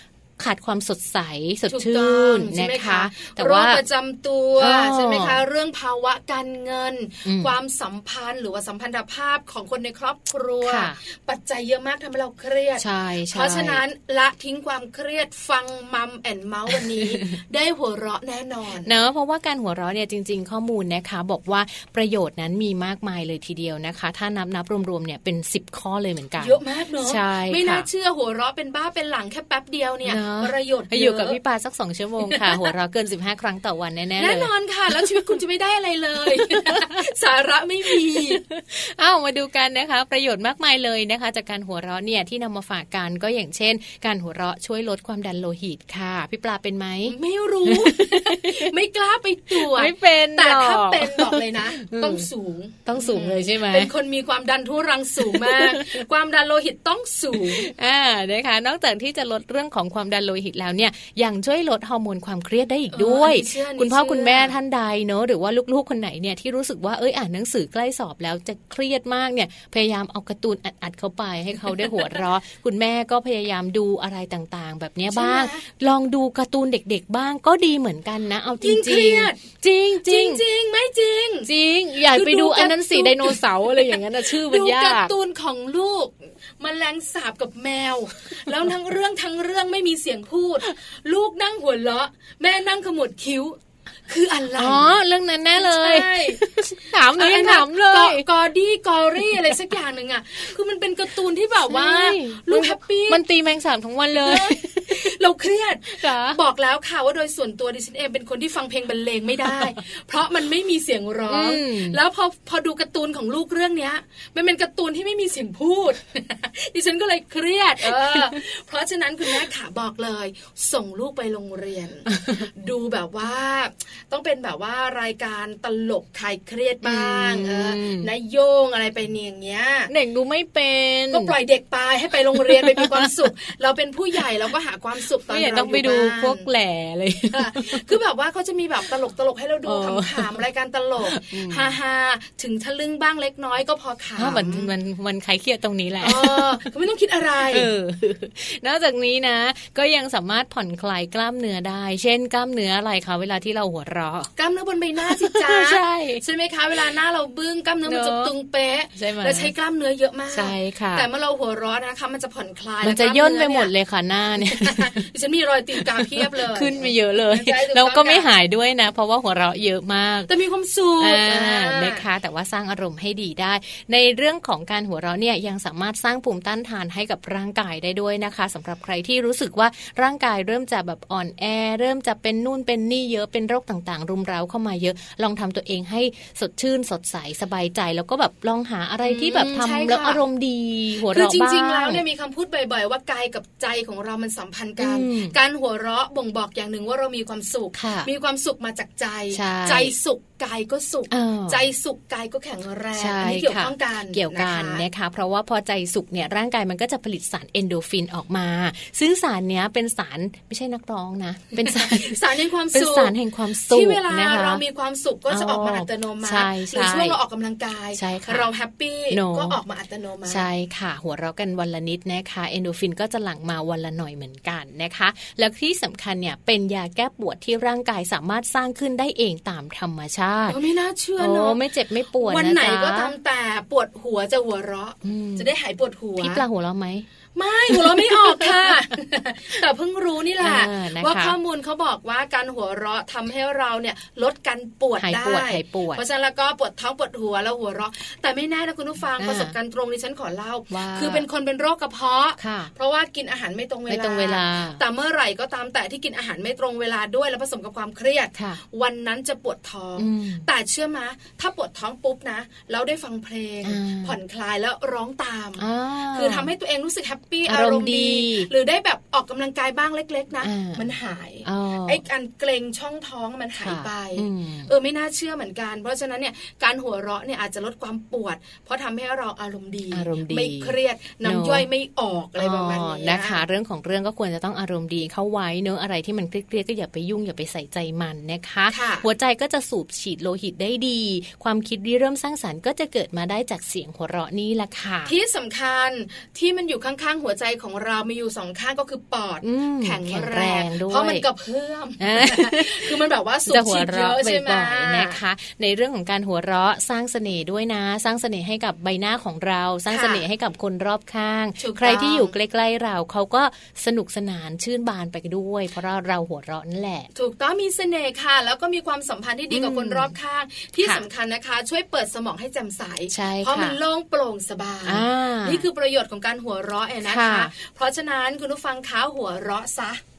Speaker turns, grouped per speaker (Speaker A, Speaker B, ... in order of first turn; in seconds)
Speaker A: 0.4-3.8, 4.6-5.4, 7.2-7.5, 10.6-11.0, 12.8-13.8, 16.9-17.2, 18.8-27.9, 30.1-35.3, 36.2-37.0, 37.9-48.7, 49.5-52.3, 52.9-53.9, 55.2-56.0, 57.3-80.4, 81.4-85.1, 94.5-98.3, 99.2-99.5, 101.7-105.2, 105.9-106.4, 109.4-109.7, 111.3-112.0, 117.8-118.4, 122.1-122.5, 126.8-128.1, 129.9-131.3, 132.3-133.3, 135.3-137.9, 139.7-140.4, 141.0-141.7, 144.2-146.7, 147.4-154.3, 155.0-156.2, 157.8-158.3, 158.9-159.5, 160.3-161.1, 162.8-165.0, 165.8-170.3, 171.0-192.0, 194.8-195.4, 197.7-198.1, 199.3-199.9, 201.1-201.7, 202.9-214.6, 215.3-217.2, 217.9-218.5, 219.1-219.6, 220.3-230.6, 231.2-233.1, 235.0-235.5, 236.2-237.1, 237.7-238.8, 240.4-241.3, 245.0-246.0, 249.2-249.6, 250.7-251.3, 252.4-252.7, 253.9-254.8, 258.3-258.6, 260.0-260.5, 263.6-264.1, 265.6-266.5, 267.4-268.5, 270.4-270.9, 271.4-272.0, 273.6-274.7, 279.9-281.6, 282.4-295.1, 299.4-301.2, 302.0-317.1, 319.5-320.1, 320.8-321.1, 323.1-323.8, 324.8-325.6, 327.0-327.5
Speaker B: 1.7-18.9, 26.4-31.4, 32.3-32.7, 34.2-38.4, 47.1-57.7, 62.9-64.5, 75.1-75.7, 78.6-79.4, 80.0-81.5, 82.0-95.0, 95.5-103.2, 104.1-129.9, 131.1-136.4, 137.3-144.7, 146.0-147.7, 154.4-163.7, 164.4-168.3, 170.3-172.1, 189.0-190.2, 191.1-204.8, 211.7-220.4, 230.5-231.6, 232.2-236.4, 237.3-283.4, 288.7-289.1, 295.1-305.2, 309.9-310.2, 311.6-312.3, 317.1-330.0